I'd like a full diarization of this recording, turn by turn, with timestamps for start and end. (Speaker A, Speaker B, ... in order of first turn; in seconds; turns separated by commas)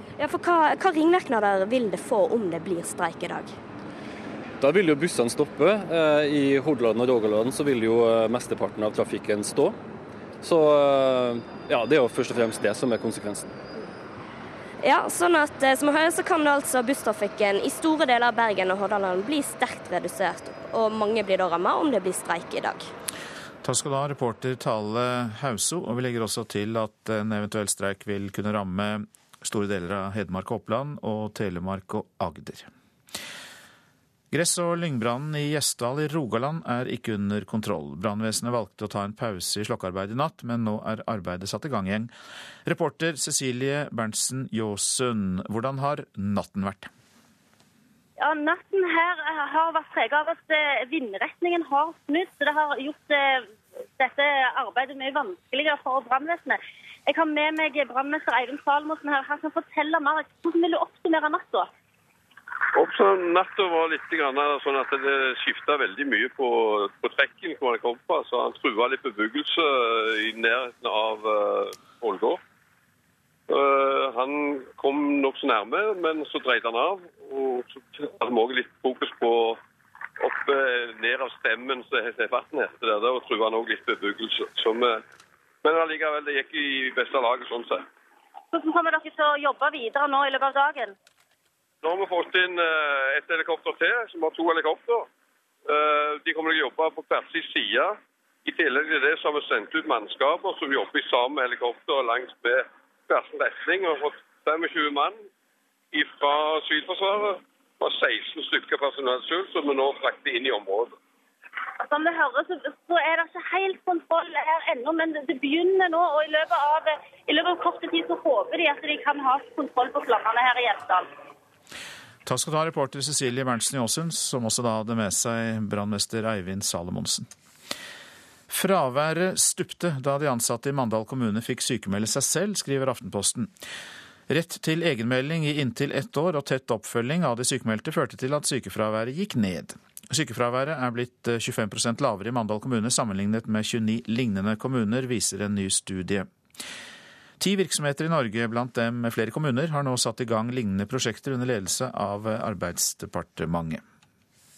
Speaker A: 0.2-3.6, Speaker B: 4.6-9.8, Speaker B: 10.4-13.6, Speaker A: 14.8-22.9, Speaker C: 23.6-32.7, Speaker C: 34.3-42.1, Speaker C: 42.6-46.9, Speaker D: 48.2-53.4, Speaker D: 54.0-61.7, Speaker E: 62.8-72.4, Speaker E: 73.5-79.6, Speaker E: 80.2-85.0, Speaker E: 85.6-87.9, Speaker D: 88.5-90.9, Speaker E: 91.8-95.1, Speaker E: 95.7-105.2, Speaker E: 105.9-110.9, Speaker D: 111.8-121.1, Speaker C: 122.2-127.3, Speaker C: 128.5-133.5, Speaker C: 134.3-146.3, Speaker C: 147.4-153.8